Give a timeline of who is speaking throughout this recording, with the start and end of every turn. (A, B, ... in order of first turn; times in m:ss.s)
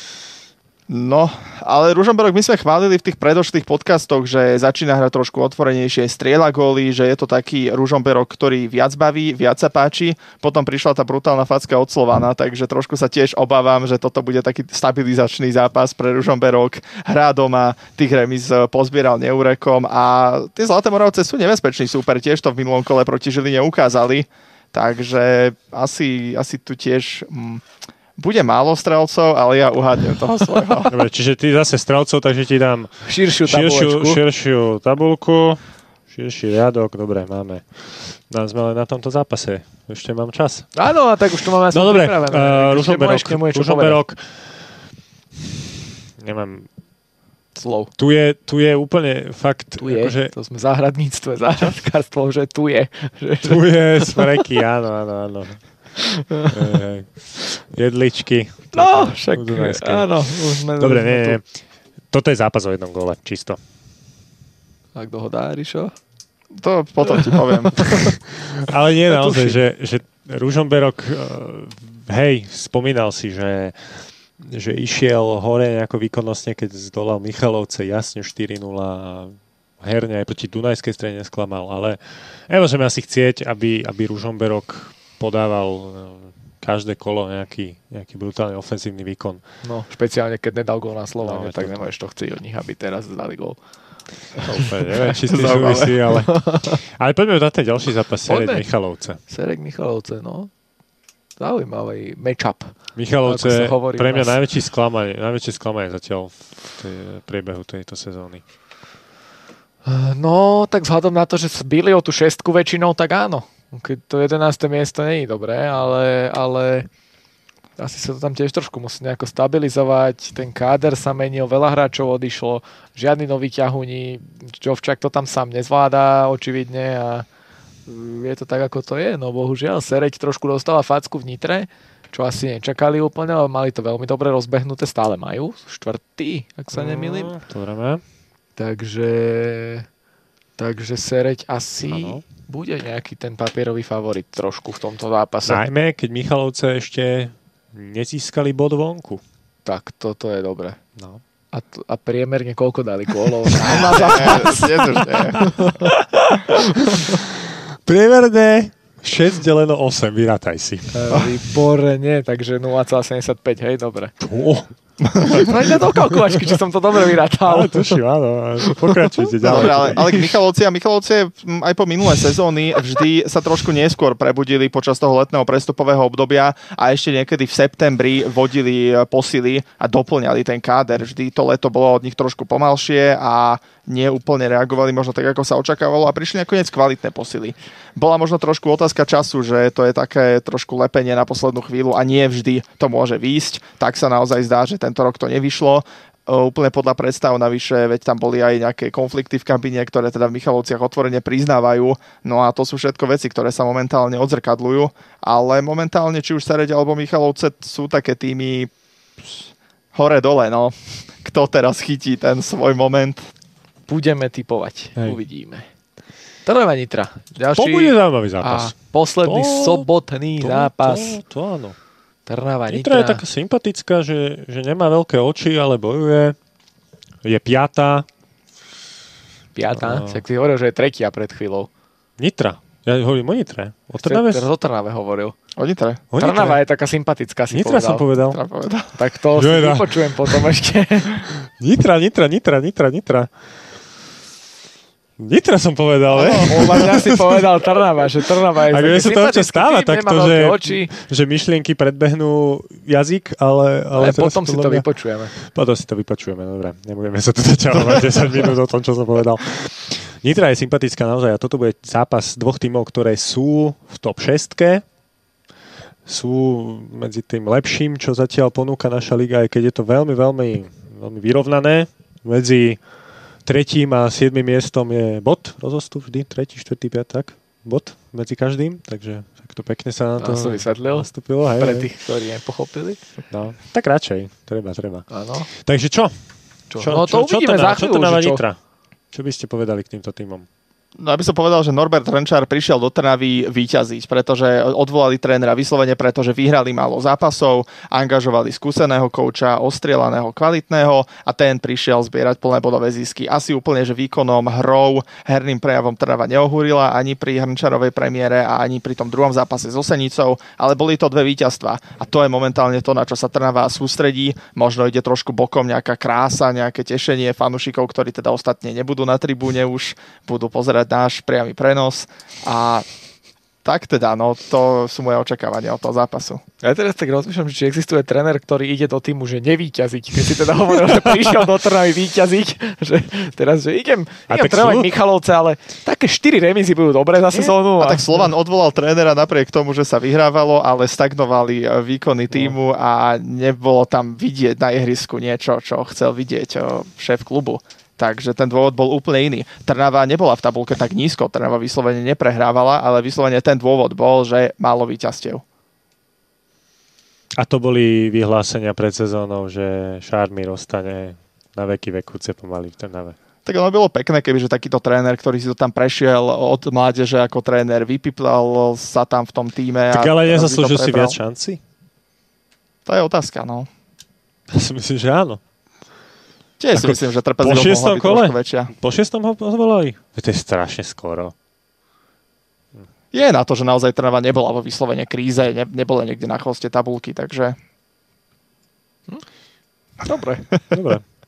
0:00.9-0:27.6 A
0:28.2-0:30.9 A
0:30.9-0:40.7 B
0:33.0-0:34.2 C
0:40.8-0:44.0 C
0:41.7-0:44.4 B
0:46.2-0:46.7 B
0:47.5-0:47.9 C
0:48.0-0:50.3 B
0:49.8-0:54.4 C
0:53.4-0:55.6 B
0:56.0-0:56.8 C
0:56.5-1:00.1 B
0:58.7-1:01.4 C
1:00.8-1:01.4 B
1:02.1-1:03.6 B
1:04.9-1:05.9 C
1:06.6-1:08.0 A
1:07.7-1:08.2 C
1:08.3-1:29.4 B
1:09.1-1:09.6 C
1:29.6-1:33.6 C
1:31.2-1:31.9 B
1:34.4-1:35.1 C
1:34.4-1:39.2 B
1:35.2-1:36.1 A
1:36.2-1:36.8 C
1:38.3-1:38.6 C
1:39.3-1:40.5 C
1:41.4-1:42.7 C
1:43.0-1:48.4 B
1:43.2-1:44.4 C
1:49.8-1:56.9 C
1:57.8-2:07.2 C
2:07.8-2:17.4 C
2:16.7-2:18.0 B
2:18.6-2:19.9 C
2:20.6-2:25.6 C
2:21.9-2:22.2 B
2:25.4-2:29.2 B
2:29.6-2:30.8 C
2:31.5-2:37.2 C
2:33.4-2:34.5 B
2:33.7-2:35.5 A
2:35.1-2:35.9 B
2:36.6-2:41.3 B
2:40.9-2:44.1 C
2:44.2-2:44.7 B
2:45.0-2:45.5 A
2:45.2-2:46.6 B
2:45.2-2:48.0 C
2:47.4-2:50.1 B
2:48.6-2:50.3 C
2:49.4-3:33.2 A
3:33.9-3:35.7 C
3:36.4-3:41.2 C
3:37.5-3:38.7 B
3:39.2-3:39.9 B
3:40.4-3:41.8 B
3:42.3-3:43.2 C
3:42.7-3:46.4 B
3:47.2-3:48.0 B
3:49.5-3:51.7 C
3:49.7-3:50.2 B
3:52.2-3:54.4 B
3:54.0-3:55.4 C
3:55.6-3:56.0 A
3:56.1-3:56.6 B
3:56.2-3:58.1 C
3:57.5-3:58.4 B
3:58.3-3:58.9 A
3:58.9-4:01.3 C
3:59.3-4:00.4 B
4:01.4-4:03.3 B
4:05.2-4:07.5 B
4:06.1-4:10.9 C
4:08.7-4:14.8 B
4:13.9-4:15.4 C
4:15.4-4:24.8 B
4:26.0-4:32.8 B
4:33.4-4:41.9 B
4:40.2-4:43.0 C
4:43.3-4:46.1 B
4:45.1-4:45.5 C
4:46.7-4:48.4 C
4:46.8-4:48.6 B
4:49.1-4:50.4 B
4:51.0-5:22.8 A
5:23.6-5:26.4 A
5:26.6-5:38.2 C
5:34.3-5:34.9 B
5:37.4-5:55.4 A
5:57.4-6:03.2 B
6:03.4-6:11.2 A
6:09.9-6:11.6 B
6:12.8-6:13.7 A
6:14.5-6:15.4 B
6:16.6-6:18.7 A
6:16.7-6:21.3 B
6:23.1-6:27.6 A
6:30.0-6:30.5 C
6:30.7-6:31.0 B